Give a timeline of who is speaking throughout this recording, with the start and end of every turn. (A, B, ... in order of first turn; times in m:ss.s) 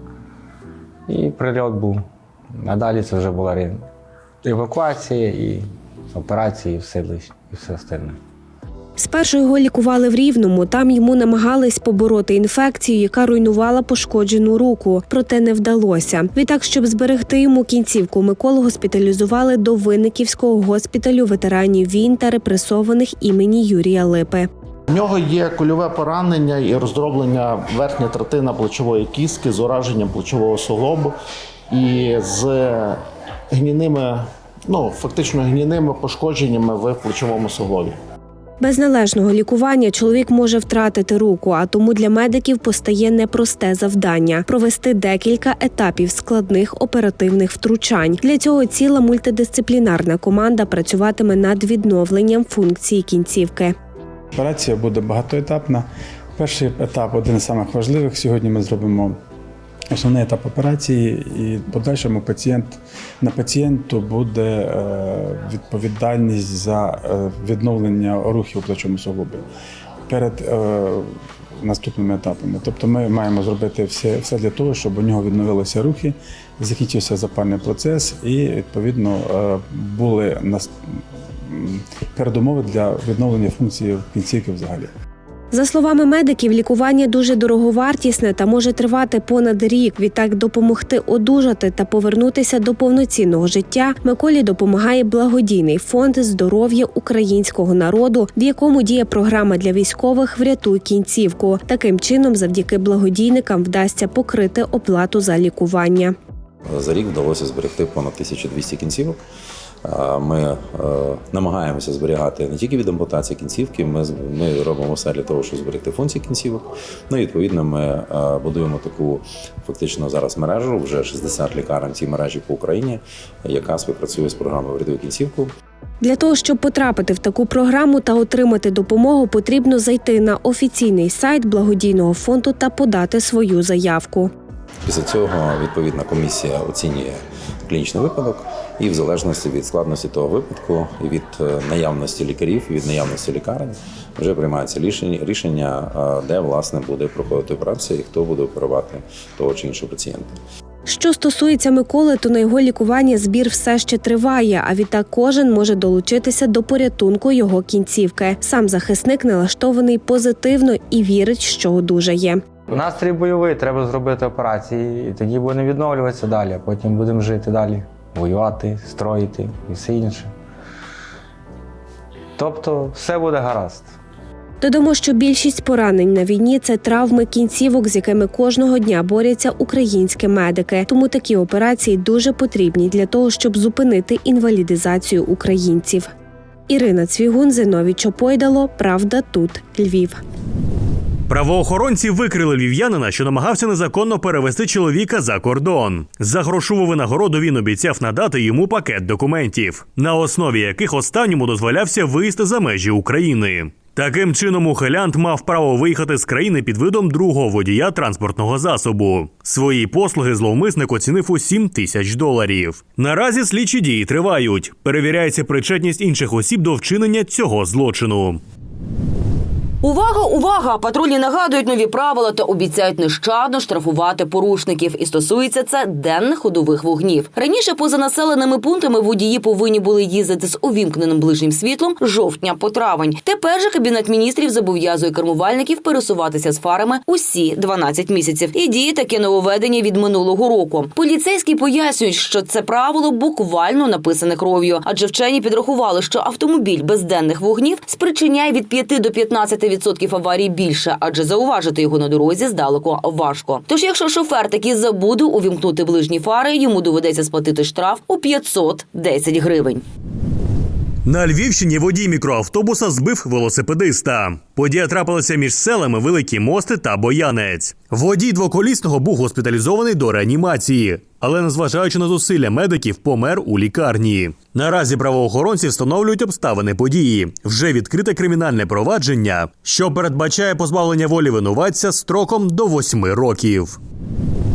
0:01.1-0:03.8 A
0:04.4-0:08.2 A
0:09.0-0:24.5 B
0:24.9-0:31.1 C
0:31.7-0:33.0 C
0:33.5-0:38.0 C
0:38.6-0:53.7 B
0:54.4-0:59.2 D
0:59.9-1:09.4 D
1:10.1-1:11.1 D
1:11.6-1:20.7 D
1:21.5-1:24.9 D
1:25.5-1:46.1 B
1:46.7-1:49.2 E
1:49.8-2:05.5 E
2:06.0-2:14.3 B
2:14.8-2:30.4 E
2:30.9-2:42.4 B
2:42.7-2:50.3 A
2:52.4-2:54.0 A
2:54.6-3:06.1 B
3:06.7-3:10.2 B
3:11.3-3:38.4 F
3:39.8-4:19.8 G
4:21.0-4:43.8 F